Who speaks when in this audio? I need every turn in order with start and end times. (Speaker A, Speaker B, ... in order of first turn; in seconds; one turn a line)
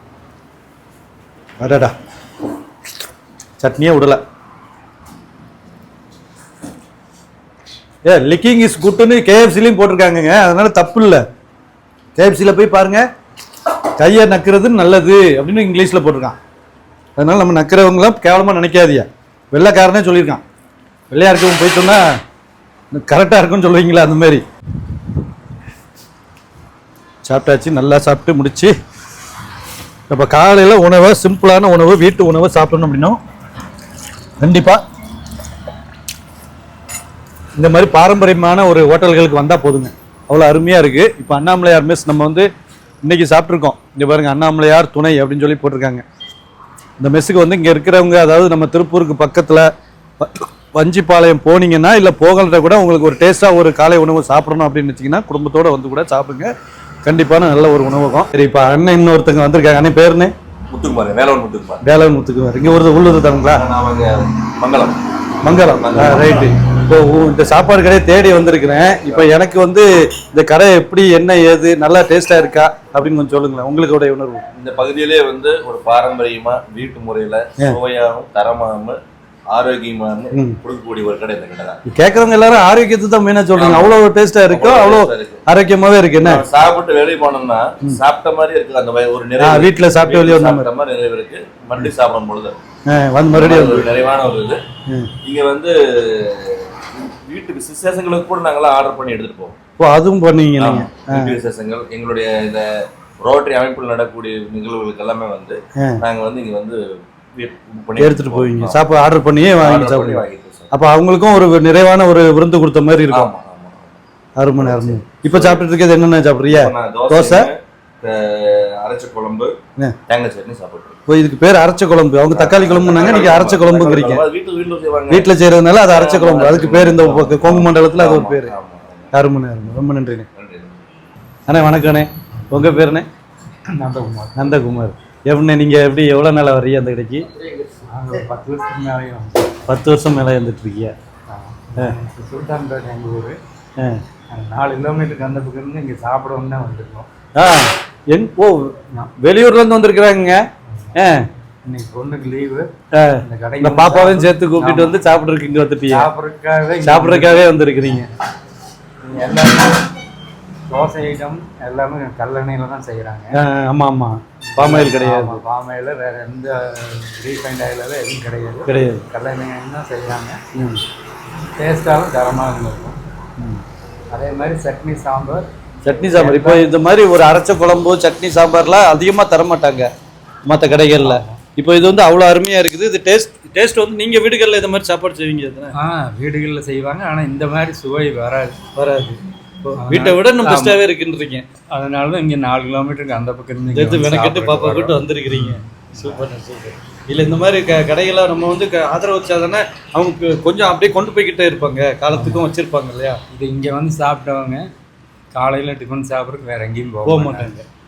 Speaker A: 1.6-1.9
Speaker A: 3.6-4.2
Speaker A: 8.1-11.2
Speaker A: 12.2-13.0
Speaker A: 14.0-16.4
Speaker A: 17.2-20.4
Speaker A: 21.1-22.0
Speaker A: 22.9-24.4
Speaker A: 27.2-28.7
Speaker A: 30.1-33.2
Speaker A: 34.4-34.8
Speaker A: 37.5-42.5
Speaker A: 43.0-46.0
Speaker A: 47.0-56.5
Speaker A: 57.0-60.3
Speaker B: 60.7-61.8
Speaker A: 61.8-63.6
Speaker B: 63.5-66.5
Speaker A: 65.4-74.4
Speaker B: 74.5-79.0
Speaker B: 79.5-81.8
Speaker A: 81.9-86.4
Speaker B: 83.6-83.9
Speaker B: 84.5-85.4
Speaker B: 86.2-92.5
Speaker A: 89.4-90.7
Speaker A: 92.9-93.9
Speaker B: 93.3-94.6
Speaker B: 95.2-99.5
Speaker A: 99.8-101.4
Speaker B: 100.6-102.7
Speaker B: 103.2-106.8
Speaker B: 107.4-108.8
Speaker A: 108.0-113.3
Speaker B: 109.5-110.7
Speaker B: 113.1-114.0
Speaker A: 114.4-117.5
Speaker B: 114.6-115.6
Speaker B: 116.5-119.5
Speaker B: 120.1-121.0
Speaker A: 121.1-124.2
Speaker B: 122.3-125.3
Speaker A: 125.1-128.5
Speaker B: 125.9-129.1
Speaker A: 129.1-130.2
Speaker B: 130.3-130.8
Speaker A: 131.5-133.1
Speaker C: 132.4-132.7
Speaker C: 133.7-134.4
Speaker A: 134.3-137.3
Speaker C: 137.9-139.6
Speaker A: 139.7-140.9
Speaker C: 141.3-143.4
Speaker A: 143.8-144.0
Speaker C: 144.3-147.1
Speaker A: 147.3-150.4
Speaker A: 150.9-151.2
Speaker C: 151.7-152.7
Speaker A: 152.9-156.1
Speaker C: 153.2-154.9
Speaker C: 155.9-157.4
Speaker A: 156.8-158.1
Speaker C: 159.1-159.9
Speaker C: 160.7-163.3
Speaker A: 163.3-165.4
Speaker C: 164.5-170.4
Speaker A: 168.7-169.0
Speaker A: 170.5-170.8
Speaker C: 171.6-173.0
Speaker C: 174.1-176.7
Speaker A: 175.8-179.9
Speaker A: 180.4-185.7
Speaker C: 180.8-181.4
Speaker C: 185.7-188.6
Speaker A: 188.8-191.5
Speaker C: 189.8-190.8
Speaker C: 191.6-196.2
Speaker A: 193.7-203.2
Speaker C: 202.1-202.4
Speaker C: 203.3-204.7
Speaker C: 205.3-207.6
Speaker A: 207.0-207.6